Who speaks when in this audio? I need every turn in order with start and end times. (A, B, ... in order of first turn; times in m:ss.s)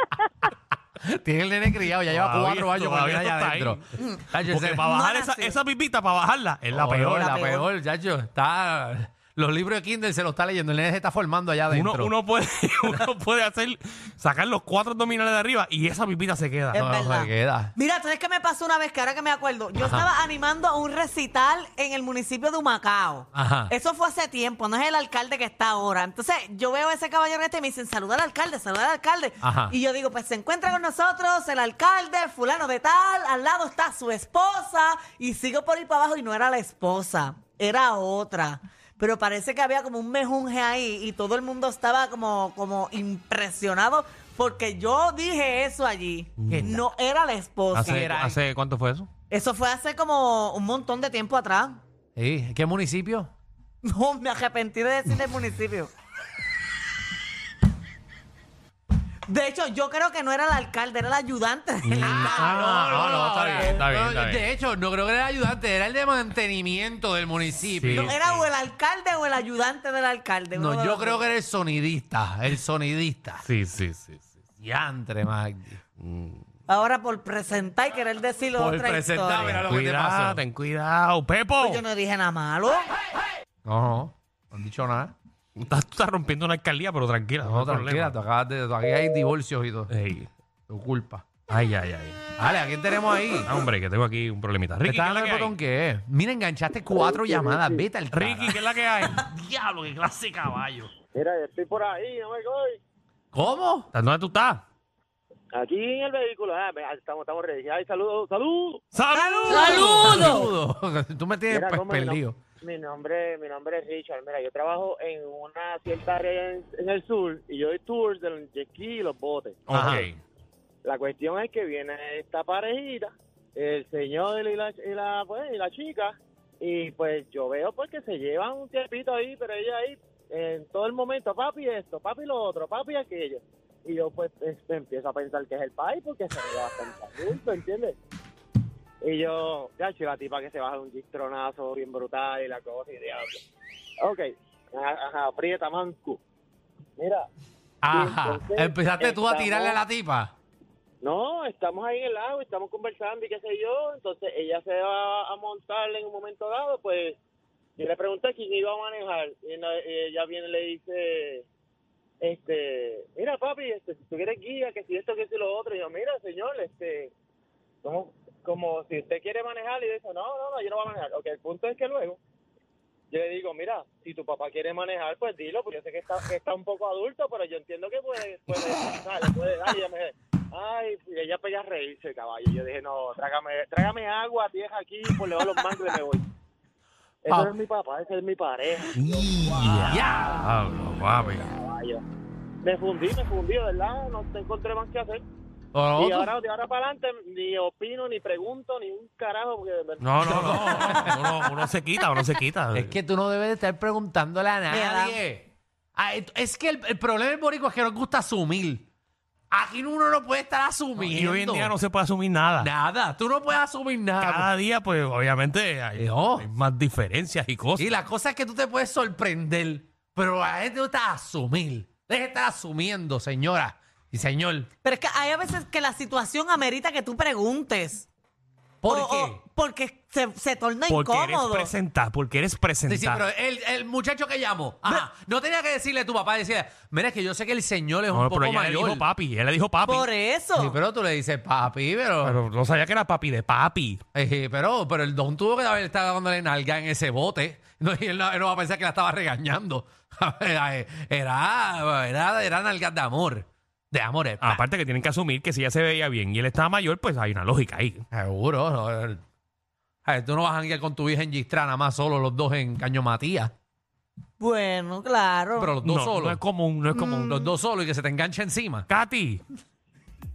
0:01.0-0:04.9 A
0:02.1-0:03.8 B
0:04.4-0:07.4 B
0:04.8-0:05.6 C
0:06.7-0:12.1 A
0:07.2-0:07.7 C
0:11.7-0:16.8 B
0:16.7-0:48.2 C
0:16.8-0:17.7 A
0:19.8-0:20.1 A
0:23.3-0:23.7 A
0:29.4-0:29.8 A
0:46.4-0:46.8 B
0:46.5-0:46.8 A
0:47.7-0:49.1 B
0:47.7-0:48.4 A
0:49.3-0:51.8 C
0:52.2-0:53.3 A
0:53.8-0:55.9 C
0:59.3-1:02.6 C
1:01.8-1:04.5 B
1:01.9-1:08.2 A
1:07.8-1:08.5 B
1:07.9-1:11.3 C
1:10.5-1:13.4 A
1:13.4-1:14.3 B
1:14.6-1:15.8 A
1:16.0-1:16.4 B
1:16.7-1:19.6 C
1:18.6-1:20.4 A
1:19.7-1:21.8 B
1:21.6-1:22.9 C
1:23.7-1:25.1 A
1:25.6-1:28.2 B
1:27.4-1:29.9 A
1:29.9-1:30.3 B
1:30.7-1:31.2 A
1:31.5-1:32.2 B
1:32.4-1:33.5 A
1:33.4-1:35.5 B
1:34.8-1:38.6 A
1:37.0-1:37.8 D
1:38.1-1:40.9 B
1:41.1-1:42.8 D
1:43.3-1:43.9 A
1:43.9-1:44.6 B
1:45.5-1:48.8 D
1:48.9-1:50.5 B
1:49.4-1:52.4 A
1:49.5-1:50.3 C
1:51.5-1:59.8 D
1:59.7-2:00.1 B
1:59.7-2:00.2 A
2:00.8-2:18.0 D
2:19.0-2:23.4 D
2:24.0-2:26.2 D
2:27.0-2:27.3 D
2:27.8-2:30.3 A
2:27.9-2:29.8 D
2:31.0-2:37.2 D
2:37.8-2:41.4 D
2:42.2-2:47.1 D
2:47.8-2:52.2 D
2:53.1-3:06.2 D
3:07.2-3:10.3 D
3:09.0-3:11.5 B
3:09.8-3:10.4 A
3:11.3-3:12.0 D
3:12.6-3:15.2 D
3:15.7-3:16.3 A
3:16.0-3:21.0 D
3:20.0-3:23.0 B
3:20.2-3:21.7 A
3:22.7-3:28.9 A
3:24.7-3:25.2 C
3:29.5-3:31.8 A
3:31.0-3:32.7 B
3:32.6-3:34.5 A
3:34.2-3:37.9 B
3:36.0-3:36.5 A
3:37.8-3:44.7 A
3:44.8-3:48.1 C
3:48.8-3:49.4 A
3:48.9-3:51.7 C
3:50.9-3:53.2 B
3:52.9-3:59.0 A
3:58.1-4:00.1 B
3:59.8-4:00.8 C
4:00.5-4:02.4 A
4:02.2-4:04.0 B
4:04.1-4:14.6 A
4:14.4-4:18.0 B
4:18.1-4:19.2 A
4:20.1-4:23.5 A
4:24.4-4:25.8 C
4:25.6-4:26.4 A
4:25.8-4:27.3 B
4:26.9-4:27.5 C
4:27.2-4:28.9 A
4:28.9-4:29.4 B